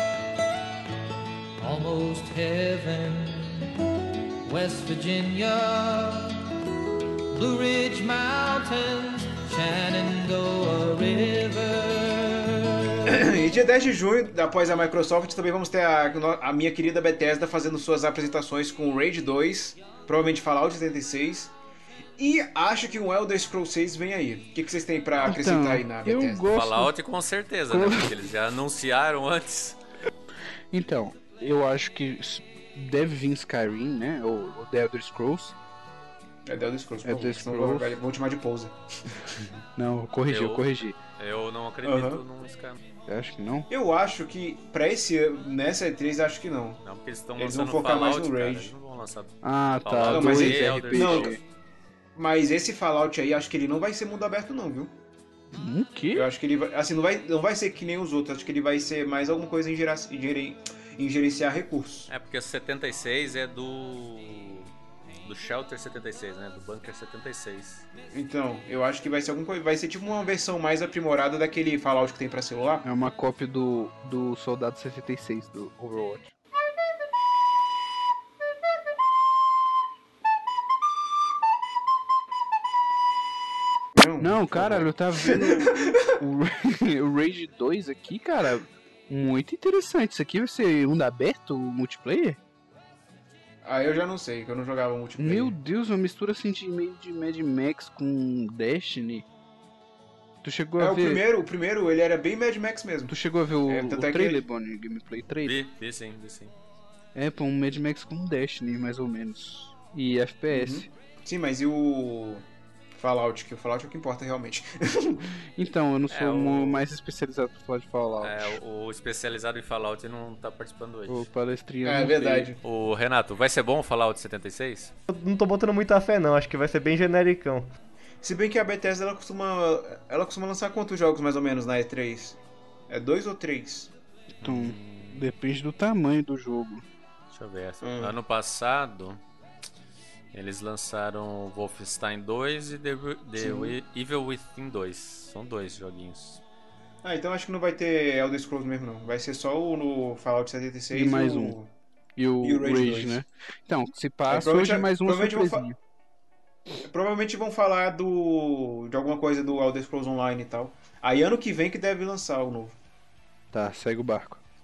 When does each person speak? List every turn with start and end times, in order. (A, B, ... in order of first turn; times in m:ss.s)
0:01.6-0:03.7 A
0:04.4-0:06.5 A
0:07.3-0:13.1 A
0:13.0-0:21.5 B
0:22.2-0:26.4 B
0:25.2-0:26.9 C
0:26.5-0:29.8 D
0:27.7-0:28.1 C
0:30.7-0:35.6 C
0:36.4-0:39.3 B
0:37.0-0:38.0 C
0:39.7-0:41.0 C
0:40.3-0:42.8 D
0:41.8-0:42.2 B
0:43.1-0:43.7 C
0:43.7-0:46.8 B
0:46.8-0:51.4 D
0:47.4-0:48.7 B
0:49.4-0:51.4 C
0:50.1-0:51.3 B
0:52.2-0:54.9 B
0:55.5-0:56.2 C
0:56.1-1:02.1 B
1:02.1-1:04.7 D
1:05.2-1:07.8 D
1:08.1-1:12.8 B
1:12.8-1:16.3 C
1:23.9-1:26.0 B
1:24.2-1:32.4 C
1:33.6-1:35.5 B
1:35.2-1:39.2 C
1:40.4-1:41.2 C
1:40.8-1:43.1 B
1:43.1-1:45.6 C
1:43.6-1:44.4 B
1:45.4-1:46.5 D
1:47.1-1:50.9 C
1:50.5-1:55.2 B
1:55.6-1:58.6 C
1:56.1-1:56.8 D
1:58.2-2:01.3 D
2:01.1-2:02.5 C
2:01.8-2:02.6 B
2:02.6-2:04.9 D
2:05.1-2:07.7 E
2:08.2-2:13.9 B
2:14.4-2:16.8 C
2:14.4-2:15.2 D
2:17.3-2:19.2 D
2:17.8-2:18.1 B
2:20.3-2:26.4 D
2:23.4-2:23.7 C
2:27.0-2:31.7 B
2:30.9-2:31.6 C
2:32.2-2:35.8 C
2:32.4-2:33.2 B
2:34.3-2:35.7 B
2:36.8-2:42.8 B
2:43.5-2:44.4 C